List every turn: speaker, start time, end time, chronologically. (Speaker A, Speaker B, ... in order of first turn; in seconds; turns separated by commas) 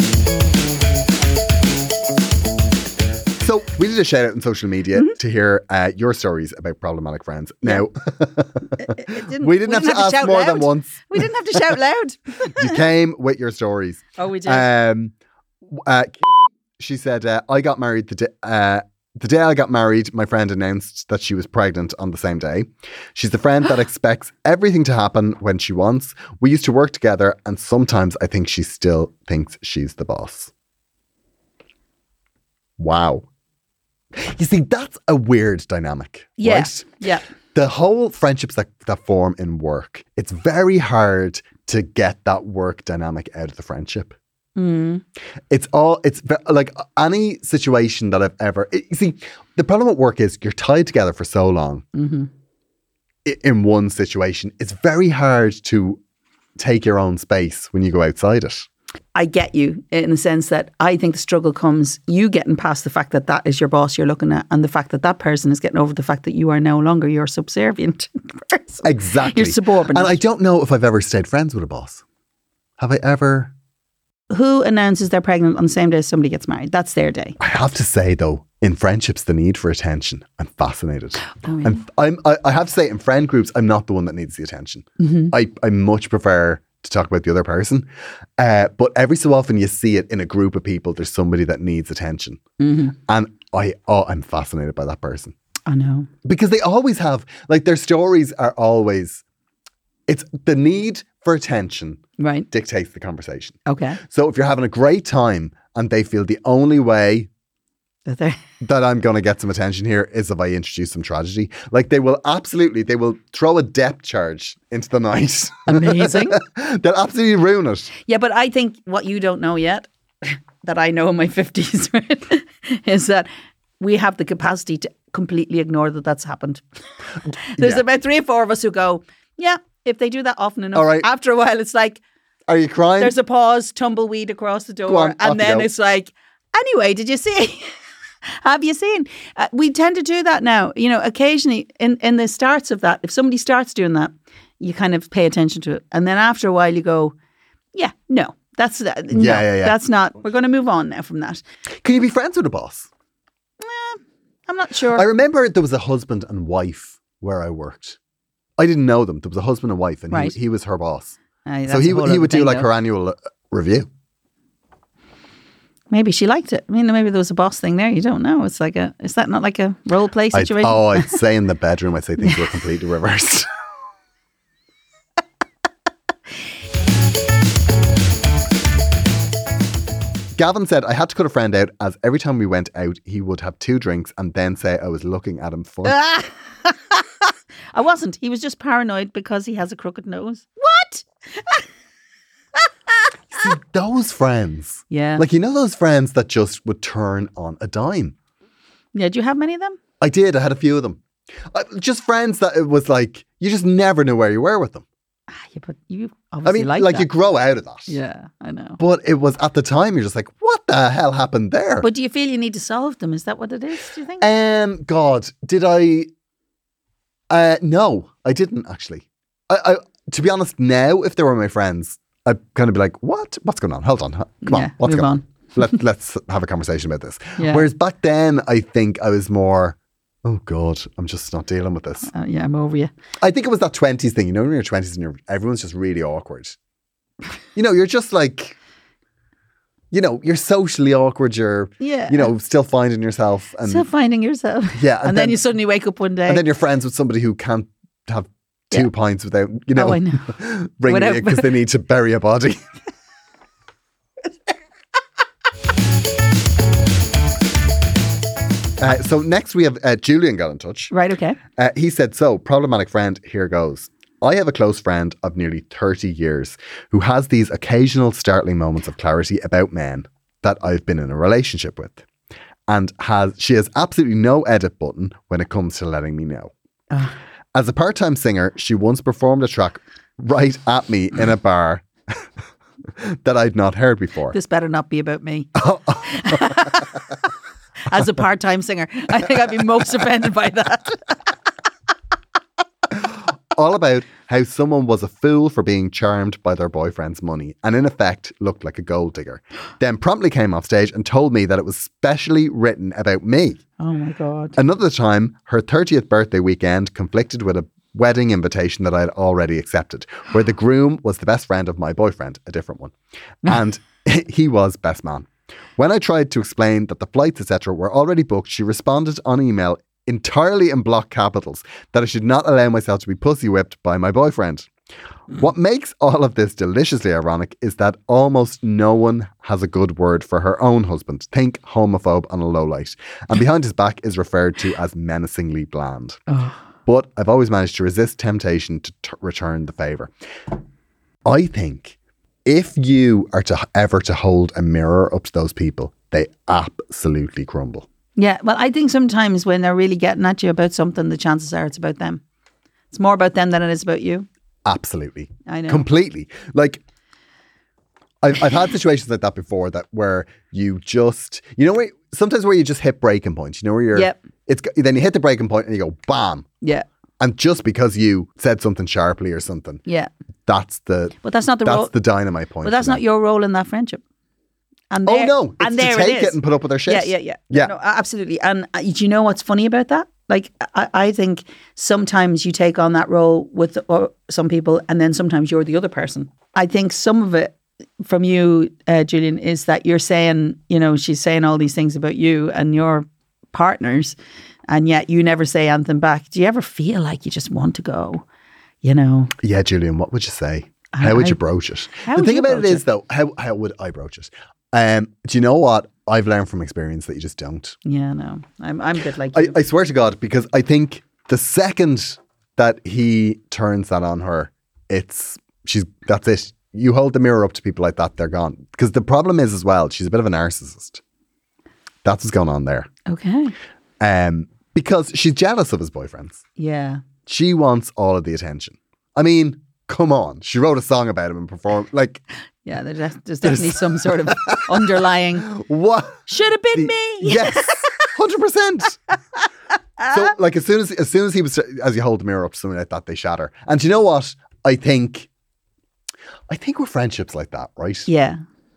Speaker A: 3.3-11.8, Speaker B: 8.8-12.8, Speaker A: 12.4-15.1, Speaker B: 14.2-14.7, Speaker A: 15.7-30.5, Speaker A: 32.8-33.2, Speaker A: 34.1-36.9, Speaker B: 36.4-37.2, Speaker A: 37.5-44.1, Speaker B: 44.5-45.0, Speaker A: 45.5-51.8, Speaker B: 51.9-52.3, Speaker A: 53.2-56.0, Speaker A: 56.6-58.7, Speaker B: 59.1-70.2, Speaker A: 68.8-72.0, Speaker A: 72.8-73.5, Speaker B: 74.3-77.3, Speaker A: 77.4-87.9, Speaker B: 81.4-81.8, Speaker B: 85.0-85.3, Speaker A: 88.4-92.4, Speaker B: 92.6-92.9, Speaker A: 93.0-95.3, Speaker B: 95.7-96.1, Speaker A: 96.2-99.2, Speaker A: 100.1-107.3, Speaker B: 102.2-102.5, Speaker B: 103.7-104.0, Speaker B: 108.0-108.4, Speaker A: 108.6-117.9, Speaker B: 115.7-116.4, Speaker B: 118.0-123.3, Speaker B: 123.8-126.6, Speaker B: 127.5-132.0, Speaker A: 127.6-127.8, Speaker A: 130.7-131.1, Speaker A: 132.5-133.2, Speaker B: 133.0-137.7, Speaker A: 134.8-135.7, Speaker B: 138.2-147.1, Speaker B: 147.7-151.4, Speaker A: 149.1-149.8, Speaker A: 151.8-152.9, Speaker B: 153.6-155.1, Speaker A: 154.9-158.0, Speaker A: 158.6-161.2, Speaker B: 161.4-162.7, Speaker A: 161.7-163.9, Speaker B: 165.9-171.2, Speaker A: 170.3-173.5, Speaker A: 180.3-186.0, Speaker B: 185.8-187.0, Speaker B: 187.7-191.6, Speaker A: 193.3-198.1, Speaker B: 194.9-195.2, Speaker B: 198.9-199.8, Speaker A: 200.0-201.0, Speaker A: 201.5-204.8, Speaker B: 205.3-207.1, Speaker A: 206.4-207.9, Speaker B: 207.9-208.8, Speaker A: 208.8-211.9, Speaker B: 211.8-214.3, Speaker A: 214.2-216.1, Speaker A: 217.3-232.1, Speaker B: 224.4-225.2, Speaker B: 227.4-227.7, Speaker B: 232.1-232.9, Speaker A: 233.2-236.6, Speaker A: 237.5-238.6, Speaker A: 239.9-243.9, Speaker B: 241.8-242.3, Speaker B: 243.6-246.4, Speaker A: 244.8-245.4, Speaker A: 246.2-252.6, Speaker B: 249.7-251.5, Speaker A: 258.8-260.9, Speaker B: 260.9-261.4, Speaker A: 261.6-272.0, Speaker A: 272.7-276.5, Speaker A: 277.5-282.2, Speaker A: 283.0-284.4, Speaker B: 284.3-286.9, Speaker A: 285.6-286.8, Speaker B: 287.9-291.1, Speaker A: 292.9-303.6, Speaker B: 303.8-304.6, Speaker A: 304.6-324.7, Speaker A: 325.3-336.2, Speaker B: 336.3-336.6, Speaker A: 336.9-340.1, Speaker A: 341.2-347.9, Speaker B: 348.1-352.2, Speaker B: 352.9-354.3, Speaker A: 354.6-356.8, Speaker B: 355.5-355.8, Speaker A: 358.2-366.5, Speaker A: 367.2-369.8, Speaker A: 370.5-373.0, Speaker B: 371.2-371.9, Speaker B: 372.6-374.0, Speaker B: 374.9-394.2, Speaker A: 375.0-377.7, Speaker B: 394.7-398.2, Speaker B: 398.8-399.3, Speaker A: 399.4-407.8, Speaker B: 400.9-401.4, Speaker B: 402.0-402.8, Speaker B: 407.8-409.6, Speaker A: 409.3-421.0, Speaker A: 422.0-422.9, Speaker B: 423.1-423.5, Speaker A: 424.0-426.4, Speaker B: 426.6-427.0, Speaker A: 427.3-432.2, Speaker B: 432.6-435.5, Speaker A: 433.4-439.0, Speaker B: 436.3-438.0, Speaker A: 440.1-445.3, Speaker A: 446.5-448.1, Speaker B: 448.1-448.4